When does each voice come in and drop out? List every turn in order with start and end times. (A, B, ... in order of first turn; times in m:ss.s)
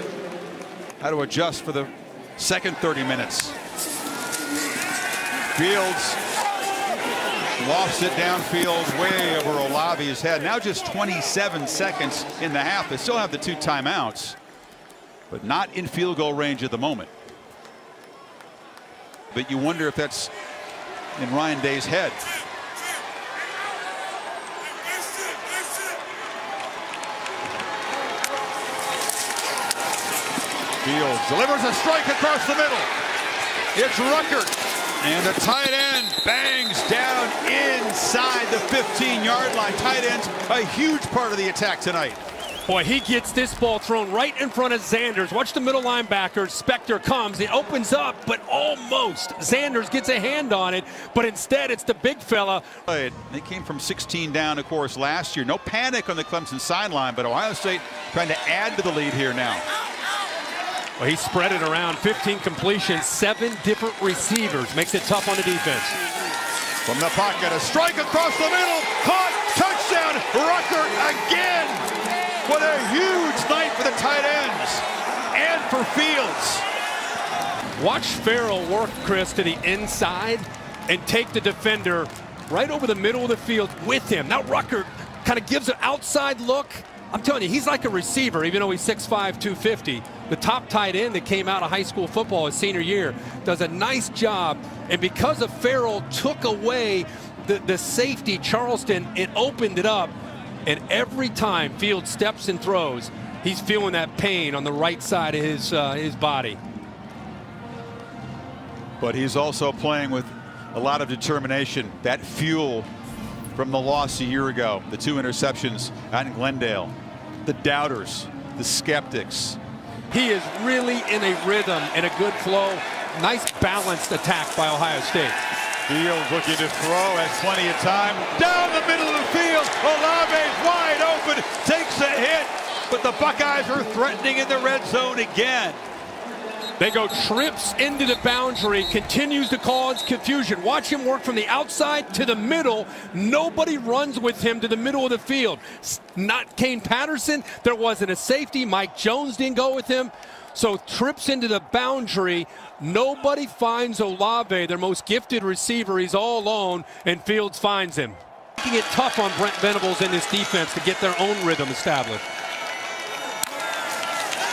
0:01.0-0:03.5 A
0:05.5-0:06.2 A
0:07.6-0:14.4 A
0:15.3-0:17.1 A
0:19.3-0:20.3 A
0:21.2-0:22.2 A
0:30.8-0:32.9 A
0:33.7-0:42.2 A
0:42.7-0:52.6 B
0:52.9-0:59.6 A
1:01.0-1:06.0 B
1:06.8-1:11.9 A
1:12.4-1:16.6 A
1:17.8-1:46.6 B
1:49.0-1:52.9 A
1:53.5-1:56.9 A
1:57.4-1:59.6 A
2:00.1-2:05.4 B
2:05.9-2:15.8 A
2:16.8-2:42.2 B